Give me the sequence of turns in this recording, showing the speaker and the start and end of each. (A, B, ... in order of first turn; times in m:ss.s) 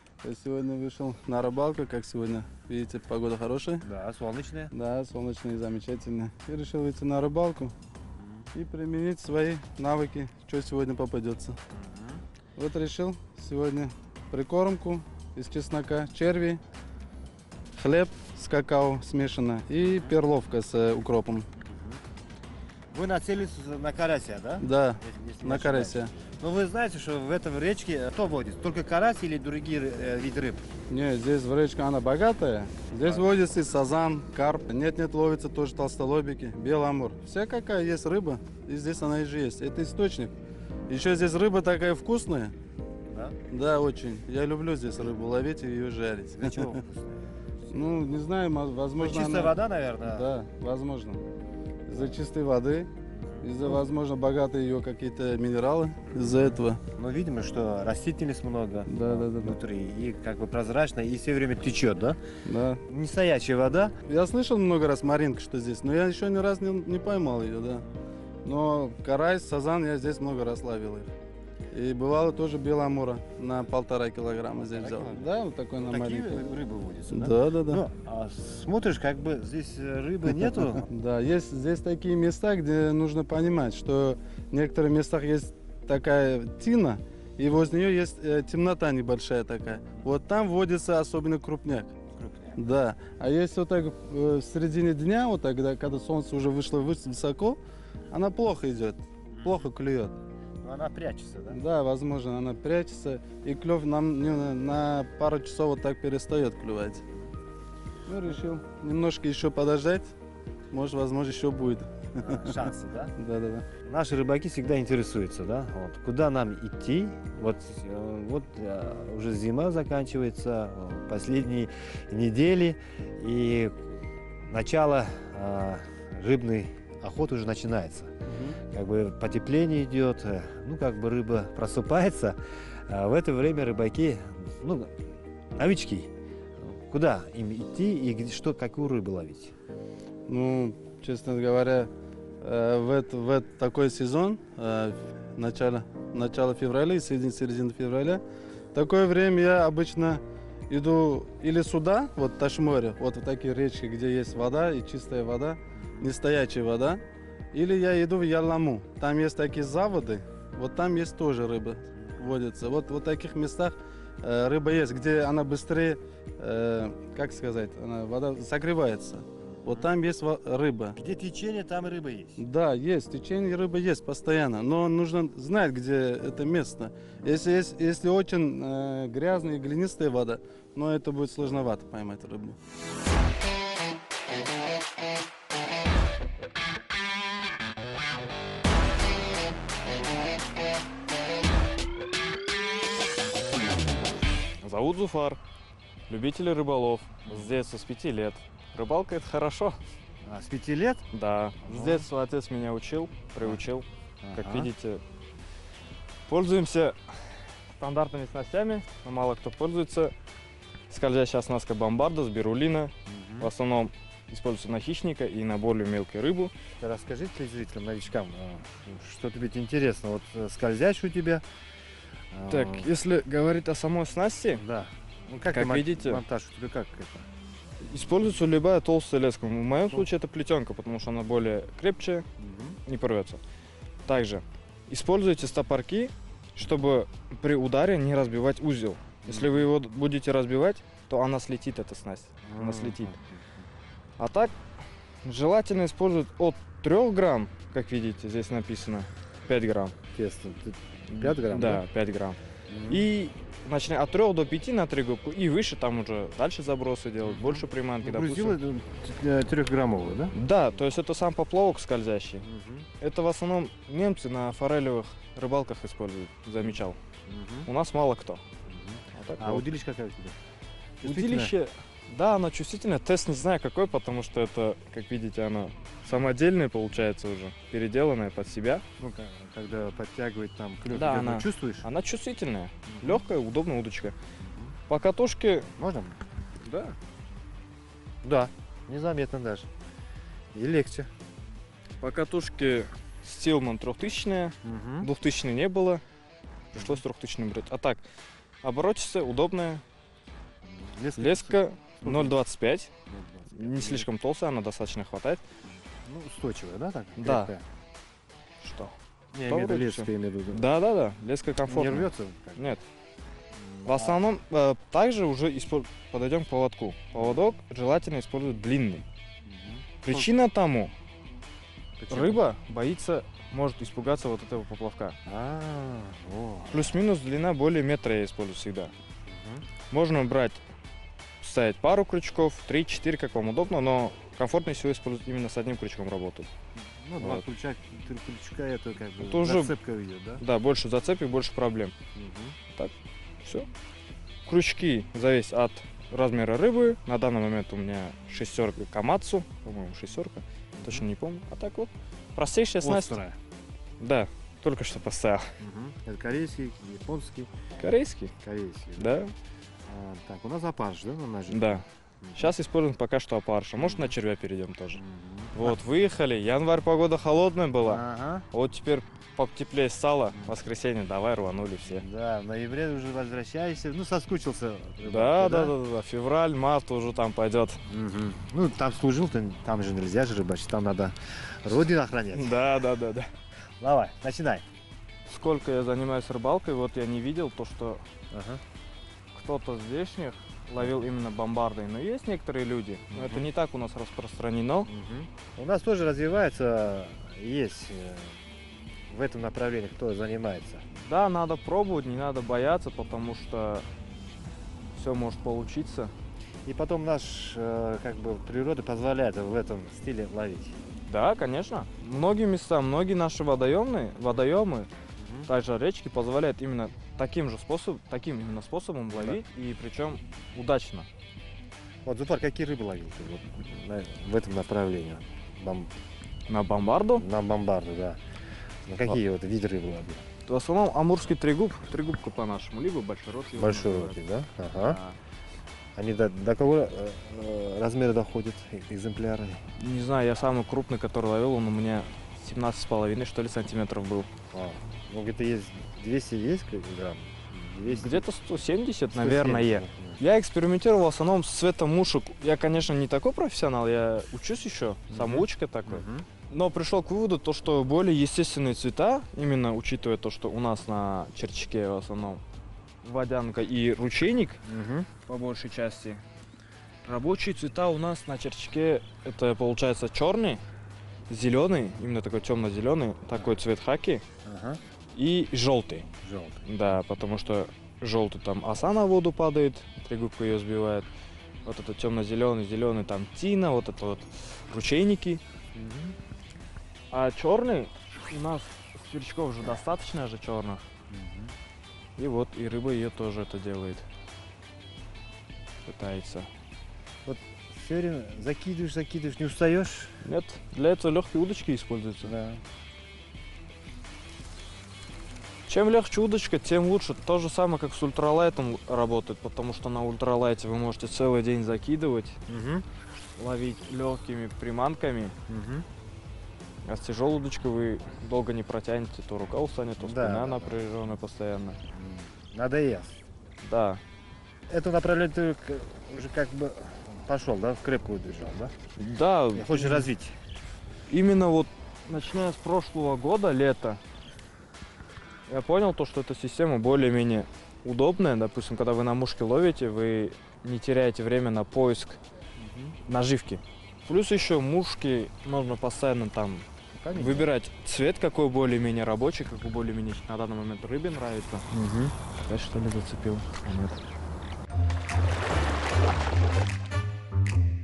0:00.2-0:03.9 A
0:03.8-0:04.7 B
0:04.7-0:07.7 A
0:08.2-0:08.5 B
0:08.5-0:11.6 A
0:11.7-0:12.2 B
0:12.6-0:16.6 A
0:17.8-0:21.5 A
0:19.8-0:20.2 B
0:21.6-0:22.0 B
0:22.9-0:30.7 B
0:24.6-0:26.1 A
0:30.9-0:40.3 A
0:33.0-0:33.3 B
0:40.9-0:42.5 A
0:43.1-0:43.4 B
0:43.5-0:46.8 A
0:46.3-0:47.8 B
0:47.7-0:51.2 A
0:49.0-0:50.3 B
0:51.9-0:52.9 A
0:53.1-0:53.5 B
0:53.4-0:56.8 A
0:56.2-1:02.2 B
0:58.9-0:59.6 A
1:02.5-1:02.8 A
1:02.9-1:03.9 B
1:04.1-1:07.8 A
1:08.4-1:11.1 A
1:11.7-1:16.4 A
1:14.6-1:20.9 B
1:17.1-1:17.8 A
1:20.8-1:31.9 A
1:32.2-1:32.6 B
1:32.6-1:37.6 A
1:38.1-1:40.2 A
1:39.3-1:39.6 B
1:40.6-1:41.6 B
1:41.5-1:47.0 A
1:48.1-1:50.1 A
1:50.7-1:53.7 A
1:52.2-1:53.1 B
1:53.8-2:19.5 B
2:08.3-2:08.6 A
2:20.3-2:28.2 A
2:28.7-2:37.0 A
2:35.8-2:36.1 B
2:37.5-2:51.0 A
2:49.4-2:49.9 B
2:51.0-2:52.4 B
2:52.4-3:02.6 A
3:14.6-3:15.4 C
3:16.1-3:19.8 C
3:17.2-3:17.5 B
3:20.2-3:21.1 B
3:21.1-3:25.0 C
3:21.6-3:22.1 B
3:24.2-3:24.7 B
3:26.3-3:30.1 C
3:30.9-3:36.5 C
3:33.1-3:33.5 B
3:36.8-3:41.4 B
3:42.3-3:42.9 B
3:42.5-3:44.6 C
3:44.6-3:47.3 B
3:45.5-3:46.2 C
3:47.8-3:52.3 C
3:52.4-3:52.8 B
3:52.9-3:53.4 C
3:54.1-4:03.2 C
3:59.3-3:59.7 B
4:02.4-4:03.4 B
4:04.2-4:04.6 C
4:05.2-4:10.0 C
4:10.1-4:11.8 B
4:11.1-4:18.6 C
4:12.7-4:13.1 B
4:17.2-4:20.4 B
4:20.3-4:22.5 C
4:22.4-4:22.9 B
4:23.0-4:27.0 C
4:26.6-4:27.7 B
4:27.7-4:28.4 C
4:28.6-4:30.4 B
4:29.1-4:29.7 C
4:31.0-4:31.5 B
4:31.0-4:38.8 C
4:39.0-4:41.9 B
4:40.9-4:44.2 C
4:42.9-4:43.2 B
4:44.4-4:44.7 B
4:44.9-4:45.7 C
4:45.8-4:46.2 B
4:46.6-4:47.0 C
4:48.2-4:49.7 B
4:50.5-4:51.1 B
4:52.0-4:56.0 C
4:54.6-4:55.1 B
4:56.7-4:58.0 C
4:56.8-4:57.0 B
4:58.6-4:59.8 C
5:00.6-5:02.4 B
5:01.2-5:02.9 C
5:03.1-5:04.1 B
5:03.5-5:05.5 C
5:05.7-5:07.6 B
5:07.2-5:07.5 C
5:08.6-5:09.0 C
5:09.3-5:10.7 B
5:09.5-5:12.8 C
5:11.7-5:12.8 B
5:13.5-5:14.2 B
5:13.9-5:19.0 C
5:17.2-5:17.5 B
5:19.5-5:20.3 B
5:20.0-5:20.9 C
5:22.0-5:22.5 B
5:22.1-5:25.2 C
5:25.3-5:27.0 B
5:26.7-5:28.9 C
5:29.3-5:29.6 B
5:29.9-5:30.6 C
5:31.4-5:36.5 C
5:36.8-5:40.4 B
5:37.2-5:37.4 C
5:39.2-5:39.7 C
5:40.4-5:42.0 C
5:42.2-5:42.6 B
5:43.4-5:43.7 C
5:44.5-5:53.2 C
5:50.8-5:51.1 B
5:52.8-5:53.4 B
5:54.0-5:55.5 C
5:55.6-5:57.5 B
5:57.8-5:58.3 C
5:58.4-5:59.2 B
5:59.0-5:59.3 C
5:59.9-6:02.5 B
6:01.5-6:01.8 C
6:02.4-6:05.0 C
6:03.8-6:04.2 B
6:05.0-6:05.8 B
6:05.5-6:12.1 C
6:07.8-6:08.5 B
6:11.9-6:15.8 B
6:15.0-6:17.8 C
6:17.9-6:22.6 B
6:22.3-6:23.3 C
6:23.8-6:24.7 B
6:25.3-6:28.0 C
6:28.3-6:28.6 B
6:29.3-6:34.9 C
6:33.1-6:33.5 B
6:34.9-6:38.4 B
6:39.1-6:40.8 B
6:40.9-6:43.9 C
6:44.9-6:46.1 C
6:46.7-6:50.8 B
6:51.1-6:54.9 C
6:55.2-6:55.5 B
6:55.5-7:01.1 C
6:59.1-6:59.4 B
7:02.0-7:05.9 B
7:06.5-7:07.2 C
7:07.2-7:08.2 B
7:08.8-7:10.2 B
7:10.5-7:14.2 C
7:13.6-7:15.0 B
7:14.7-7:15.2 C
7:16.0-7:19.6 B
7:19.8-7:24.3 C
7:24.5-7:28.2 B
7:27.9-7:42.4 C
7:29.1-7:30.2 B
7:35.1-7:36.3 B
7:43.0-7:44.6 C
7:44.6-7:45.1 B
7:45.3-7:46.2 C
7:47.0-7:50.6 C
7:51.3-7:54.2 C
7:54.4-7:54.8 B
7:55.1-7:56.1 C
7:56.2-7:56.7 B
7:56.6-8:01.1 C
8:01.6-8:05.4 C
8:05.8-8:06.2 B
8:07.1-8:10.9 C
8:11.1-8:11.5 B
8:12.2-8:14.1 C
8:15.8-8:16.5 C
8:17.2-8:20.2 B
8:20.2-8:22.3 C
8:22.2-8:22.6 B
8:25.7-8:32.4 C
8:32.5-8:32.9 B
8:33.4-8:35.4 C
8:35.5-8:35.9 B
8:36.8-8:41.8 C
8:40.0-8:40.8 B
8:41.9-8:43.2 B
8:43.6-8:44.0 C
8:44.7-8:48.7 B
8:49.0-8:50.1 C
8:49.5-8:50.4 B
8:51.1-8:54.0 C
8:55.5-9:02.2 C
9:02.6-9:03.0 B
9:03.1-9:11.7 C
9:06.9-9:07.5 B
9:11.7-9:12.2 B
9:12.4-9:14.0 C